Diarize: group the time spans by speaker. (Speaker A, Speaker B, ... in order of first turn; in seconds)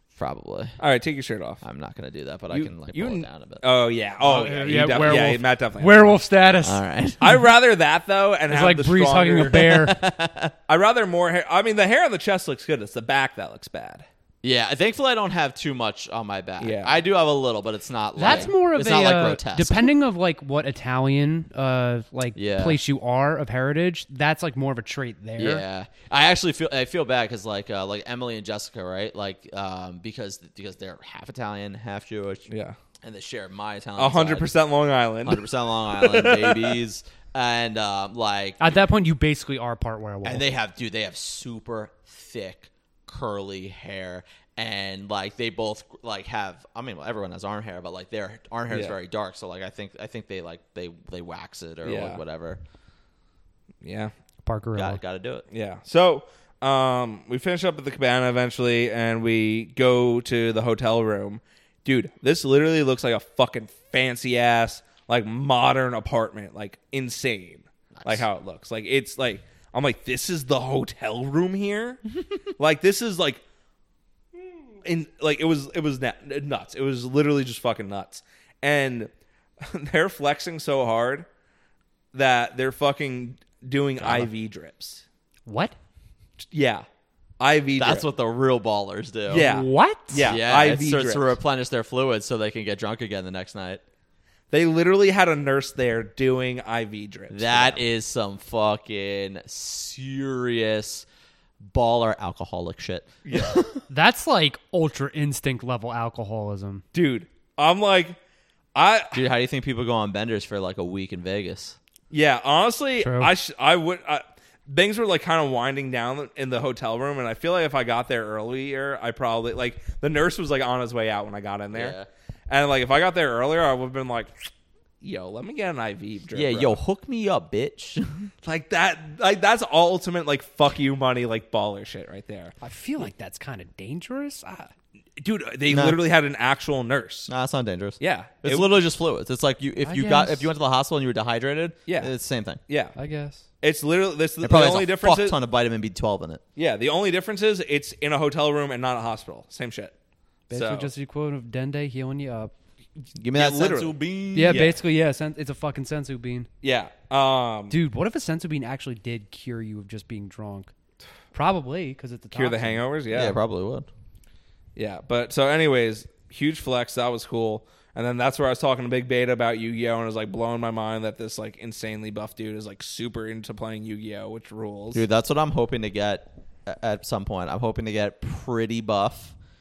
Speaker A: 0.1-0.8, 1.6-3.6, 6.6-7.2, 9.5-10.5, 14.4-19.9, 22.3-22.8, 25.4-32.5, 33.0-34.5, 35.2-38.8, 40.2-52.6, 54.7-55.4, 68.0-68.2, 84.0-84.3, 87.8-89.5, 90.2-93.8, 97.3-101.0, 101.6-103.8, 109.1-111.8, 121.7-122.1, 126.3-128.3, 135.7-136.0, 137.3-142.6, 144.4-146.4, 153.2-154.7, 163.1-163.9, 174.9-179.3
Speaker B: 0.8-1.6, 2.5-6.2, 7.2-9.9, 10.7-14.1, 16.6-17.0, 18.2-18.5, 32.5-32.8, 34.0-36.8, 48.7-49.0, 51.8-52.2, 53.8-54.1, 55.5-72.0, 72.6-73.4, 74.8-79.1, 79.6-81.3, 82.1-85.0, 86.5-86.8, 87.4-88.0, 89.3-91.3, 94.5-97.9, 103.2-103.6, 106.9-108.2, 108.7-109.2, 112.1-122.0, 122.5-124.5, 125.0-126.8, 128.4-132.5, 135.2-137.3, 138.0-138.7, 141.9-142.1, 142.7-142.9, 143.6-145.4, 146.6-149.9, 150.5-150.9, 153.3-153.9, 154.5-154.7, 156.6-157.8, 162.3-163.4, 164.8-175.0
Speaker C: 4.2-6.8, 8.5-10.0, 18.2-25.6, 38.6-40.5, 54.4-55.0, 85.5-85.7, 89.3-90.3, 103.9-106.8, 113.0-113.3, 132.6-134.7, 139.8-140.5, 142.9-143.4, 150.5-152.5, 154.3-156.5, 157.7-160.7, 161.3-162.8